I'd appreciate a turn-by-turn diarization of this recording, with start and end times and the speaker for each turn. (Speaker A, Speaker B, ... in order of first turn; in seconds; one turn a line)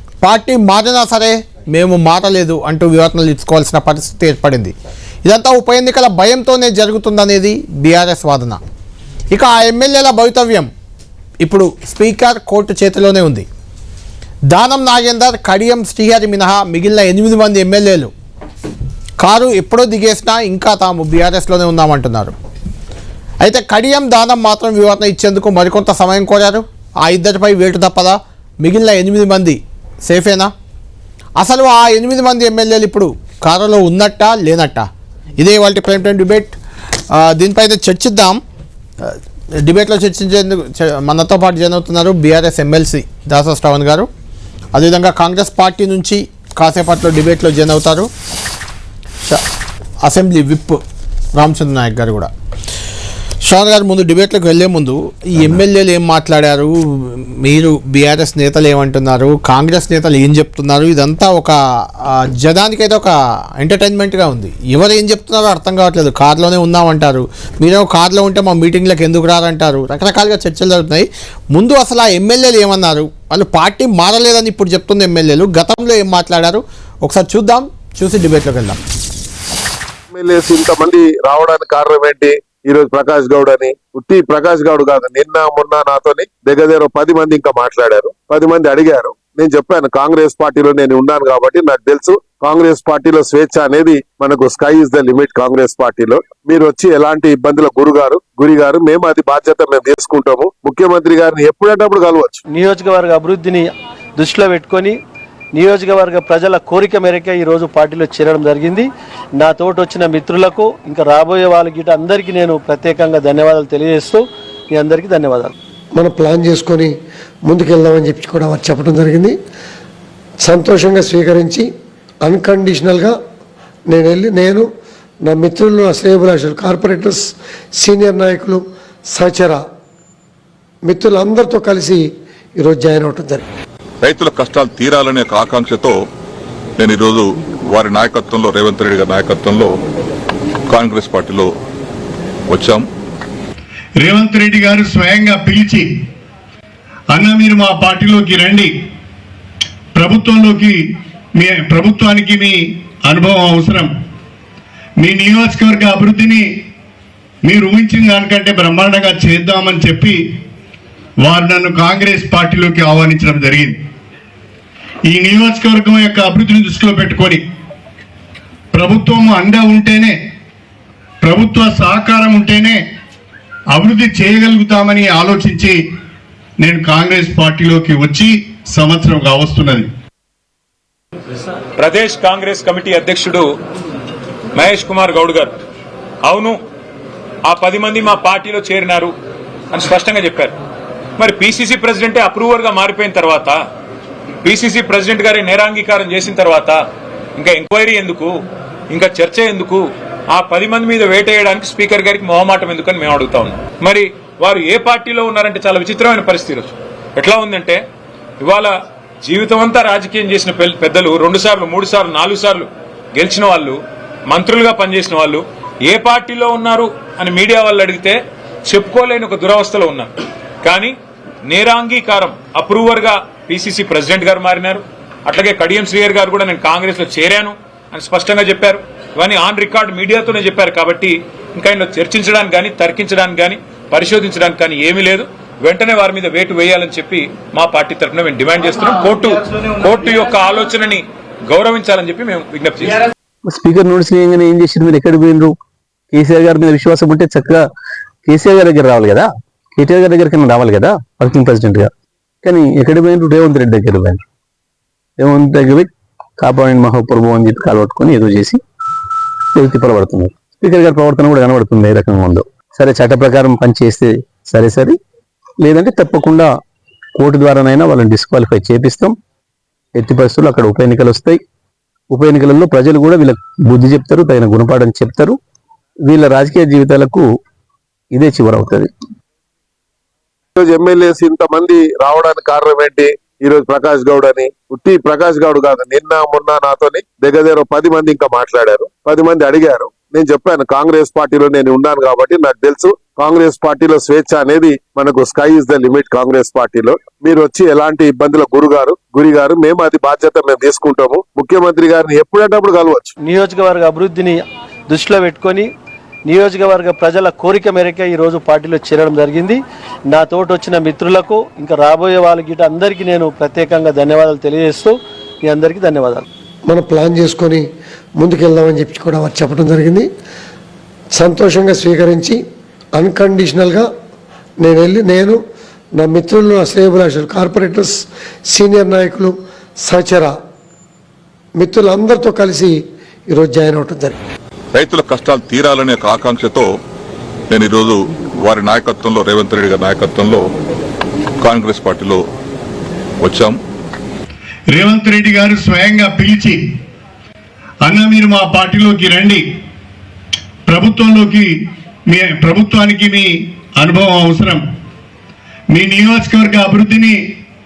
Speaker A: 0.2-4.7
Speaker A: 5.2-8.6
Speaker A: 9.3-10.7
Speaker A: 11.4-13.5
Speaker A: 14.5-18.1
Speaker A: 19.2-22.3
Speaker A: 23.4-30.5
Speaker A: 31.4-34.9
Speaker A: 35.4-36.6
Speaker A: 37.1-38.4
Speaker A: 39.0-44.1
Speaker A: 44.7-48.1
Speaker A: 50.0-50.8
Speaker A: 51.4-52.3
Speaker A: 53.4-78.8
Speaker B: 80.1-102.4
Speaker C: 102.5-105.0
Speaker C: 105.5-108.9
Speaker C: 109.4-114.2
Speaker C: 114.8-115.5
Speaker D: 116.0-116.9
Speaker D: 117.5-119.3
Speaker D: 120.4-121.7
Speaker D: 122.2-123.2
Speaker D: 123.9-124.7
Speaker D: 125.3-127.2
Speaker D: 127.8-128.6
Speaker D: 129.1-129.6
Speaker D: 130.9-132.0
Speaker D: 132.6-133.4
Speaker E: 134.0-136.0
Speaker E: 136.8-139.7
Speaker E: 140.7-141.5
Speaker E: 142.5-142.8
Speaker F: 144.0-145.9
Speaker F: 147.1-148.7
Speaker F: 150.0-150.8
Speaker F: 151.4-153.9
Speaker F: 155.0-156.5
Speaker F: 157.4-160.2
Speaker F: 161.2-163.7
Speaker F: 165.1-167.4
Speaker F: 168.7-170.2
Speaker F: 171.2-172.8
Speaker F: 173.7-175.8
Speaker F: 176.6-179.9
Speaker G: 181.8-183.5
Speaker G: 184.5-185.5
Speaker G: 186.2-186.6
Speaker G: 187.4-189.1
Speaker G: 189.7-190.5
Speaker G: 191.2-193.6
Speaker G: 194.4-196.8
Speaker G: 197.4-198.4
Speaker G: 198.9-207.8
Speaker G: 208.4-220.1
Speaker G: 220.6-243.0
Speaker H: 243.5-245.5
Speaker H: 246.1-247.6
Speaker H: 248.3-251.9
Speaker H: 252.4-254.2
Speaker H: 255.2-255.9
Speaker H: 256.4-258.6
Speaker H: 259.6-265.0
Speaker H: 265.6-266.5
Speaker H: 267.2-269.1
Speaker H: 270.0-271.4
Speaker H: 272.1-275.4
Speaker H: 276.1-277.2
Speaker H: 278.1-278.9
Speaker B: 280.6-303.1
Speaker C: 303.2-305.7
Speaker C: 306.3-309.6
Speaker C: 310.1-314.9
Speaker C: 315.5-316.2
Speaker D: 316.7-317.6
Speaker D: 318.2-320.1
Speaker D: 321.1-322.4
Speaker D: 323.0-323.9
Speaker D: 324.6-325.4
Speaker D: 326.0-327.9
Speaker D: 328.5-329.3
Speaker D: 329.9-330.4
Speaker D: 331.6-332.8
Speaker D: 333.3-334.2
Speaker E: 334.7-336.7
Speaker E: 337.5-340.5
Speaker E: 341.4-342.2
Speaker E: 343.2-343.6
Speaker F: 344.7-346.7
Speaker F: 347.8-349.4
Speaker F: 350.7-351.5
Speaker F: 352.1-354.6
Speaker F: 355.7-357.2